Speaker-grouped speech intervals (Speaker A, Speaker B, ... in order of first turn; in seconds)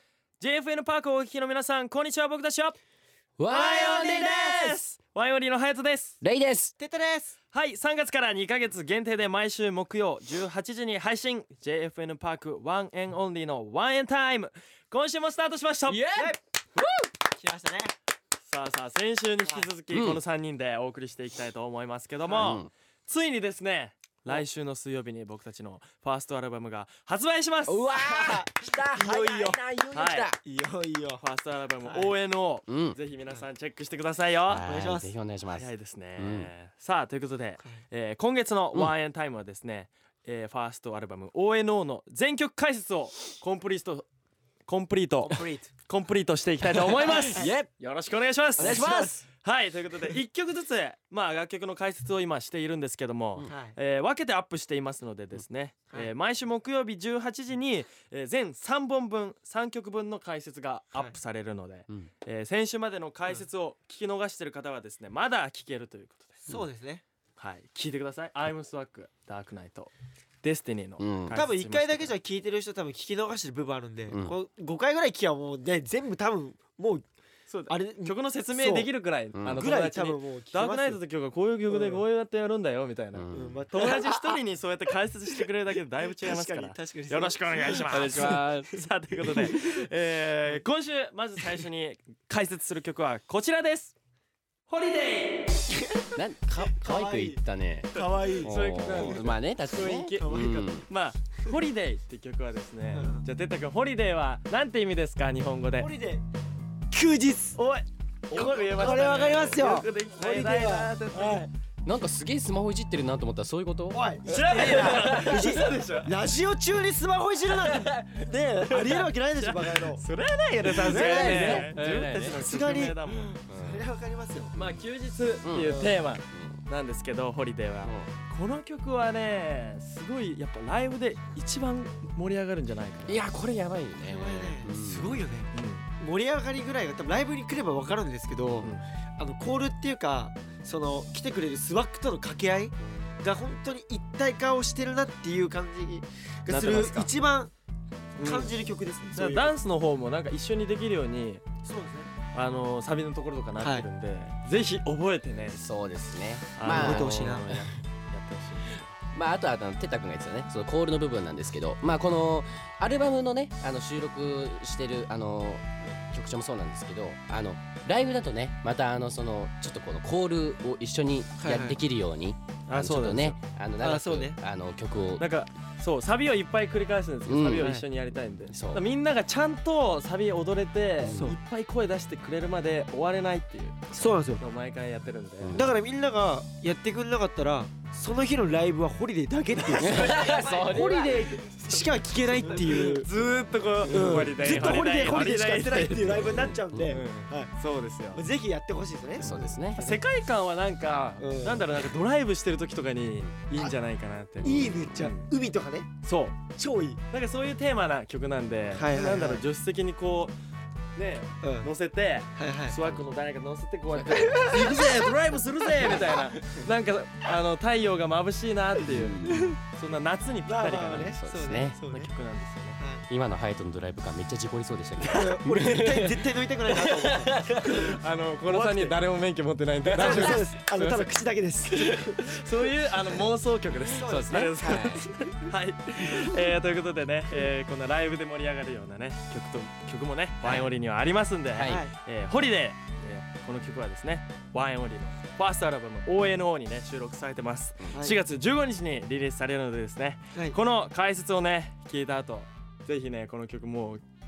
Speaker A: 0.4-2.8, 3.5-6.2, 7.5-16.1, 18.4-27.9, 29.9-30.3, 31.2-34.7, 35.5-44.1, 44.7-66.5, 67.4-69.9, 70.4-72.1, 77.5-94.0, 94.7-95.5, 98.0-100.2, 100.9-105.9, 107.6-111.5, 114.2-116.1, 117.5-118.0, 118.7-123.4, 124.5-133.2, 135.5-135.8, 146.5-147.1, 148.2-148.5, 149.2-151.4, 152.3-155.6, 156.6-158.9, 172.7-173.4, 175.2-185.7, 191.7-198.2, 199.2-205.3, 206.0-206.4, 207.1-210.3, 210.9-221.2, 221.9-222.8, 227.2-231.1, 231.6-254.0
Speaker B: 3.4-4.8, 6.2-6.8, 15.9-17.1, 19.9-20.2, 22.4-22.7, 27.6-30.4, 32.7-33.0, 34.5-36.5, 46.7-47.7, 48.6-49.2, 71.0-71.4, 74.1-74.3, 79.3-79.6, 83.1-83.6, 87.9-88.8, 96.2-100.9, 111.8-114.0, 114.8-115.5, 120.6-122.4, 123.5-123.8, 124.5-124.8, 125.4-126.6, 127.8-128.1, 133.1-135.2, 142.8-143.1, 155.5-157.5, 159.1-175.3, 177.3-177.8, 178.5-178.8, 181.0-181.4, 185.4-185.7, 189.8-191.4, 196.2-196.9, 199.2-199.8, 204.4-204.8, 213.9-214.4, 218.8-219.6, 220.8-221.8, 223.1-226.2, 234.0-235.0, 241.6-241.8
Speaker C: 6.8-7.3, 17.3-17.9, 22.3-22.6, 27.9-29.6, 30.4-31.2, 31.8-32.1, 34.6-35.1, 45.2-45.7, 48.6-49.2, 53.5-53.8, 66.5-67.0, 71.3-77.1, 77.7-78.9, 79.5-81.0, 81.7-82.0, 83.3-84.4, 86.1-88.3, 95.8-96.1, 96.8-97.4, 97.9-98.5, 100.1-100.7, 102.9-103.3, 105.8-106.2, 106.9-107.6, 108.3-111.5, 113.9-120.0, 120.8-121.7, 122.3-124.5, 125.6-126.0, 134.0-147.5, 148.2-149.5, 151.6-152.1, 153.6-153.9, 156.7-157.5, 171.4-171.8, 173.8-174.4, 181.1-181.3, 183.9-184.4, 185.5-193.1, 193.9-197.5, 198.1-200.0, 201.2-201.7, 204.4-205.9, 206.6-207.0, 208.7-209.4, 211.4-211.7, 212.4-212.8, 214.1-215.2, 220.5-222.1, 222.8-223.1, 225.0-227.9, 228.5-229.0, 229.9-232.2, 234.0-235.5, 241.7-241.9